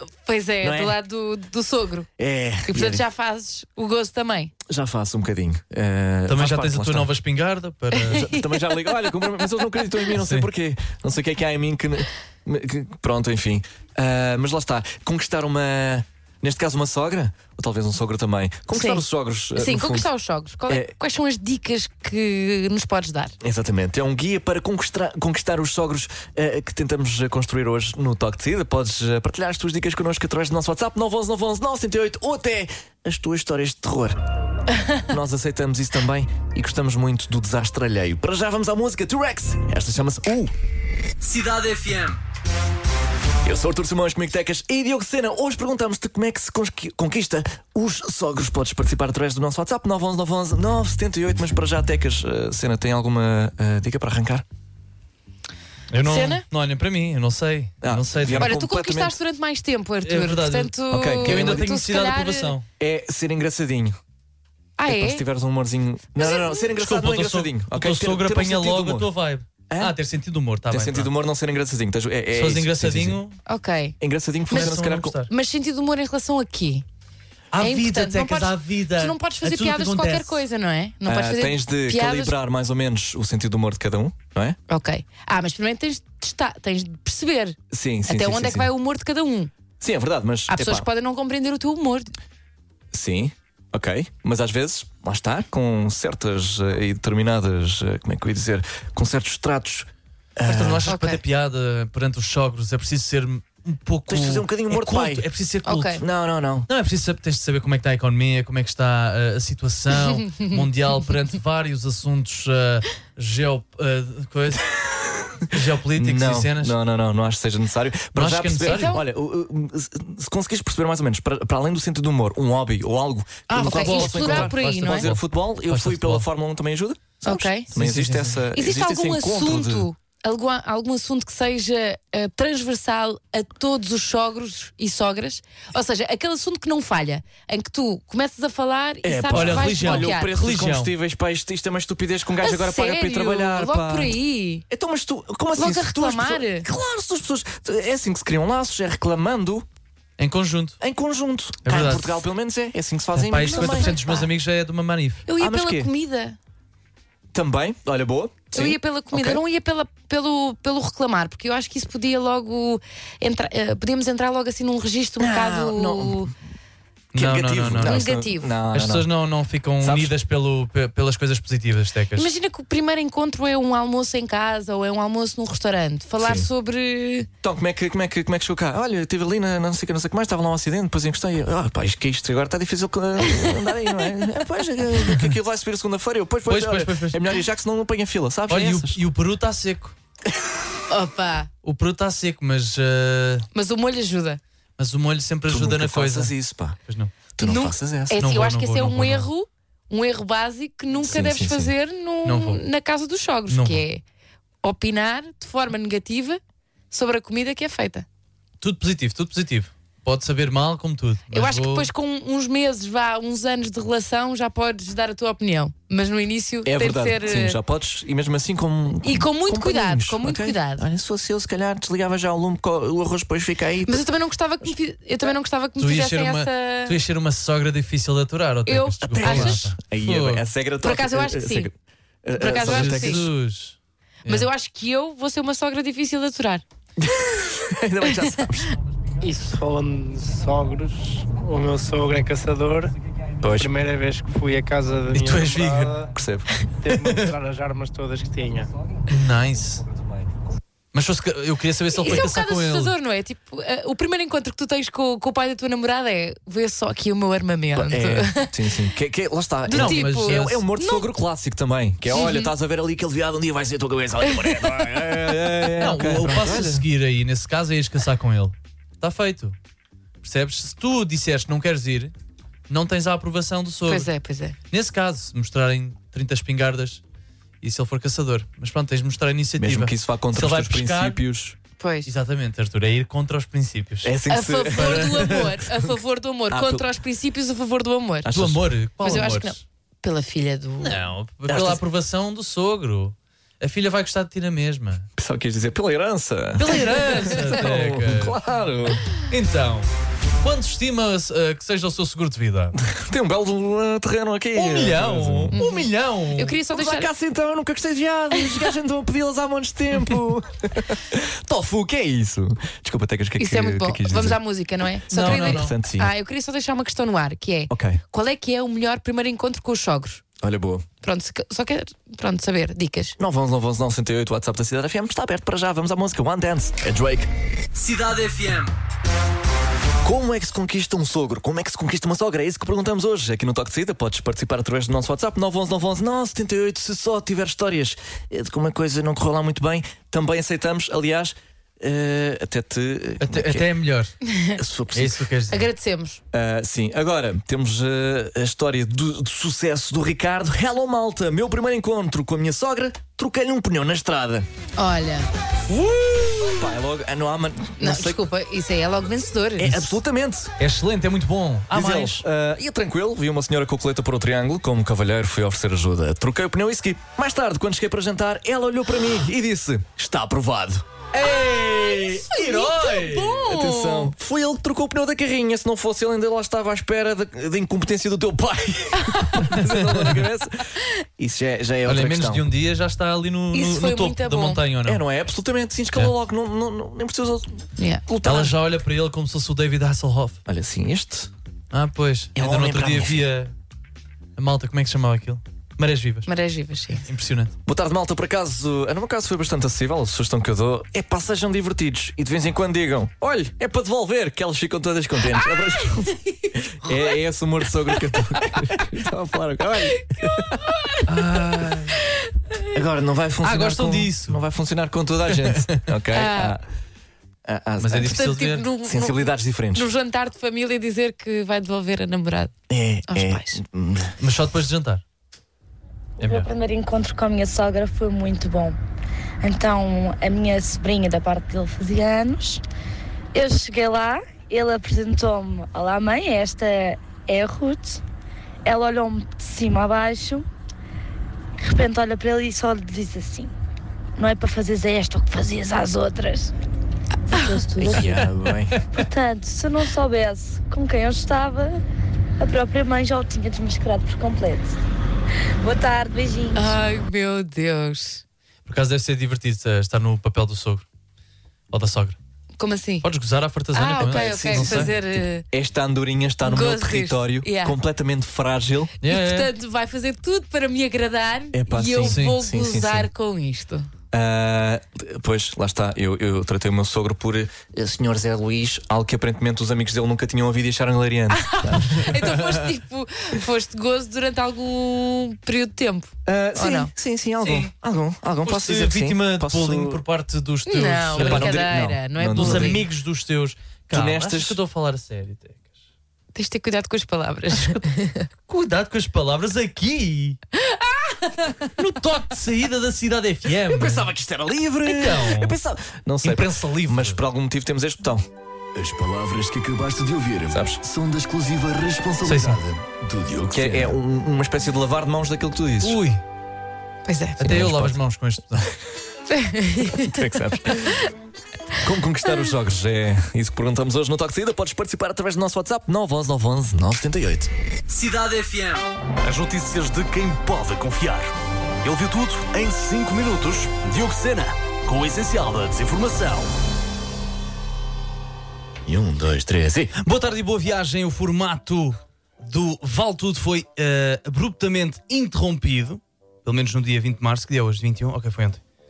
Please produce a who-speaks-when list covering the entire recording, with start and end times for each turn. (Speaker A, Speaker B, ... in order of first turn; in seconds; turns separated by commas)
Speaker A: 0.2-2.1, Speaker B: 0.6-1.0, Speaker B: 2.2-3.0, Speaker A: 2.7-4.5, Speaker B: 4.7-7.1, Speaker C: 6.3-8.3, Speaker B: 8.0-20.1, Speaker A: 8.3-8.8, Speaker C: 10.1-10.5, Speaker A: 18.7-19.0, Speaker A: 19.5-23.3, Speaker B: 20.7-20.9, Speaker B: 23.4-34.2, Speaker B: 35.1-40.5, Speaker D: 41.2-42.2, Speaker B: 43.4-54.5, Speaker C: 55.9-58.5, Speaker A: 56.0-56.4, Speaker B: 57.8-59.2, Speaker A: 58.4-62.5, Speaker C: 60.0-62.6, Speaker B: 60.9-61.7, Speaker B: 62.8-64.0, Speaker A: 64.8-65.2, Speaker B: 64.9-69.1, Speaker A: 66.2-66.6, Speaker C: 66.8-71.1, Speaker B: 69.7-70.0, Speaker B: 70.7-73.2, Speaker C: 72.3-73.4, Speaker A: 73.5-74.0, Speaker B: 74.0-75.2, Speaker C: 74.5-75.3, Speaker A: 75.3-76.8, Speaker C: 77.5-80.4, Speaker A: 77.6-82.3, Speaker B: 81.0-84.6, Speaker A: 84.7-89.5, Speaker B: 87.7-88.7, Speaker B: 89.8-90.9, Speaker A: 90.5-92.2, Speaker B: 92.9-100.9, Speaker C: 100.5-106.0, Speaker A: 100.9-101.2, Speaker B: 104.1-105.3, Speaker A: 105.7-106.0, Speaker B: 106.0-106.7, Speaker C: 106.7-114.7, Speaker C: 115.5-116.7, Speaker B: 115.5-129.9, Speaker C: 118.2-119.0, Speaker A: 118.6-119.0, Speaker A: 123.5-125.1, Speaker C: 123.6-126.2, Speaker A: 127.2-127.7, Speaker C: 127.7-128.4, Speaker A: 128.5-140.3, Speaker B: 139.0-144.2, Speaker C: 139.3-140.9, Speaker A: 142.4-144.7, Speaker B: 144.7-149.7, Speaker A: 145.6-146.7, Speaker C: 150.2-150.8, Speaker B: 150.8-153.9, Speaker C: 151.7-152.2, Speaker C: 153.2-155.2, Speaker A: 153.4-154.3, Speaker A: 155.3-156.4, Speaker B: 155.4-155.9, Speaker B: 157.3-159.4, Speaker A: 158.5-166.3, Speaker B: 165.2-166.3, Speaker C: 167.1-168.1, Speaker B: 167.1-169.1, Speaker A: 167.8-168.5, Speaker C: 168.7-172.3, Speaker B: 169.8-170.1, Speaker A: 172.2-177.3, Speaker B: 176.2-176.5, Speaker B: 177.4-189.0, Speaker C: 186.5-187.3, Speaker C: 188.5-190.0, Speaker A: 190.9-191.5, Speaker C: 191.6-193.5, Speaker A: 193.5-194.4, Speaker C: 194.8-196.3, Speaker B: 195.5-196.8, Speaker C: 196.9-197.1, Speaker B: 197.3-198.2, Speaker A: 197.4-204.0, Speaker C: 198.2-199.3, Speaker B: 201.0-201.7, Speaker C: 202.2-202.6, Speaker C: 203.5-203.8, Speaker A: 204.6-206.4, Speaker A: 206.9-208.1, Speaker C: 208.6-211.9, Speaker A: 211.3-217.6, Speaker B: 216.7-224.0, Speaker A: 219.0-220.8, Speaker A: 223.8-227.0, Speaker C: 225.8-230.5, Speaker A: 228.7-229.6, Speaker B: 229.0-233.3, Speaker A: 230.8-231.7, Speaker A: 232.4-233.2, Speaker C: 232.5-234.5, Speaker A: 234.2-236.6, Speaker B: 237.0-238.7, Speaker E: 239.2-242.9, Speaker B: 243.4-243.7, Speaker E: 243.6-246.0, Speaker C: 245.1-246.0, Speaker B: 246.1-246.5, Speaker E: 246.8-248.7, Speaker C: 246.9-247.3, Speaker C: 249.1-249.8, Speaker C: 250.9-252.9, Speaker A: 251.9-258.5, Speaker B: 257.8-266.9, Speaker A: 259.7-261.1, Speaker C: 259.7-260.6, Speaker A: 262.1-262.5, Speaker A: 264.2-264.7, Speaker C: 265.8-269.6, Speaker C: 270.2-272.1, Speaker C: 272.7-274.1, Speaker A: 273.9-274.6, Speaker C: 274.7-277.0, Speaker C: 277.6-281.2, Speaker B: 279.6-281.6, Speaker A: 281.8-282.1, Speaker C: 282.1-284.1, Speaker B: 284.0-285.9, Speaker A: 284.3-288.3, Speaker C: 284.8-285.5, Speaker B: 286.5-286.9, Speaker B: 288.2-288.7, Speaker C: 288.3-289.6, Speaker A: 289.0-291.0, Speaker C: 290.8-295.1, Speaker B: 291.5-291.8, Speaker B: 295.1-299.1, Speaker C: 296.6-298.4, Speaker C: 299.2-299.9, Speaker C: 300.4-302.8, Speaker B: 302.8-305.6, Speaker C: 304.5-306.6, Speaker A: 305.5-307.1, Speaker B: 306.7-314.4, Speaker A: 313.4-320.2, Speaker B: 315.1-316.1, Speaker C: 315.1-315.8, Speaker B: 317.7-318.0, Speaker B: 320.4-320.9, Speaker A: 321.0-323.2, Speaker B: 323.2-327.3, Speaker D: 327.8-328.7, Speaker B: 330.0-343.7, Speaker C: 343.2-344.1, Speaker B: 344.6-345.2, Speaker C: 344.9-345.6, Speaker A: 345.5-346.2, Speaker B: 346.3-354.5, Speaker A: 354.8-355.3, Speaker C: 356.0-356.4, Speaker B: 356.5-358.2, Speaker A: 357.8-360.0, Speaker B: 359.6-360.5, Speaker C: 360.6-362.2, Speaker B: 361.7-371.4, Speaker C: 371.2-373.4, Speaker A: 371.6-374.1, Speaker B: 373.4-382.5, Speaker A: 379.1-379.4, Speaker C: 381.9-385.0, Speaker A: 383.5-384.6, Speaker B: 384.9-388.6, Speaker A: 387.8-388.0, Speaker C: 388.2-390.4, Speaker B: 390.5-391.3, Speaker C: 391.7-393.5, Speaker B: 392.4-393.3, Speaker C: 394.4-396.3, Speaker A: 396.2-397.0, Speaker C: 397.1-397.5, Speaker B: 397.6-410.7, Speaker A: 405.3-406.9, Speaker A: 410.0-411.0, Speaker C: 411.1-412.0, Speaker B: 412.7-416.6, Speaker C: 413.4-414.4, Speaker C: 415.3-415.8, Speaker A: 416.1-416.6, Speaker B: 417.4-419.9, Speaker C: 417.8-418.6, Speaker A: 418.0-422.5, Speaker B: 422.7-424.1, Speaker A: 423.1-423.6, Speaker C: 424.2-425.0, Speaker C: 426.2-426.5, Speaker F: 426.2-428.8, Speaker F: 429.4-432.6, Speaker F: 433.3-438.0, Speaker F: 438.6-440.5, Speaker F: 441.6-443.5, Speaker F: 444.2-446.5, Speaker F: 447.3-448.3, Speaker B: 447.8-448.8, Speaker F: 448.9-451.8, Speaker F: 452.4-454.8, Speaker F: 455.6-456.8, Speaker A: 456.6-458.2, Speaker C: 458.6-460.9, Speaker C: 461.7-462.2, Speaker A: 462.6-463.1, Speaker C: 463.0-464.9, Speaker A: 463.7-465.5, Speaker B: 464.0-469.0, Speaker A: 466.4-467.8, Speaker C: 469.0-469.5, Speaker A: 469.1-473.9, Speaker B: 471.5-473.1, Speaker C: 472.0-472.4, Speaker B: 474.1-482.7, Speaker A: 481.3-486.9, Speaker B: 486.2-490.0, Speaker C: 487.4-487.7, Speaker C: 488.4-491.6, Speaker A: 490.7-492.9, Speaker B: 491.2-492.9, Speaker C: 492.3-495.6, Speaker B: 493.9-494.6, Speaker A: 496.3-498.2, Speaker C: 497.6-497.8, Speaker C: 498.5-500.4, Speaker A: 500.6-501.6, Speaker C: 501.8-504.1, Speaker B: 503.6-508.2, Speaker C: 504.9-505.6, Speaker C: 506.2-507.2, Speaker D: 508.8-513.9, Speaker B: 510.5-511.0, Speaker C: 512.2-512.6, Speaker B: 513.5-516.0, Speaker C: 515.8-516.2, Speaker A: 517.1-517.4, Speaker C: 517.4-518.7, Speaker B: 517.4-518.0, Speaker A: 519.3-521.0, Speaker B: 519.9-521.0, Speaker B: 521.8-527.5, Speaker D: 527.9-536.5, Speaker B: 538.9-539.9, Speaker C: 540.0-548.6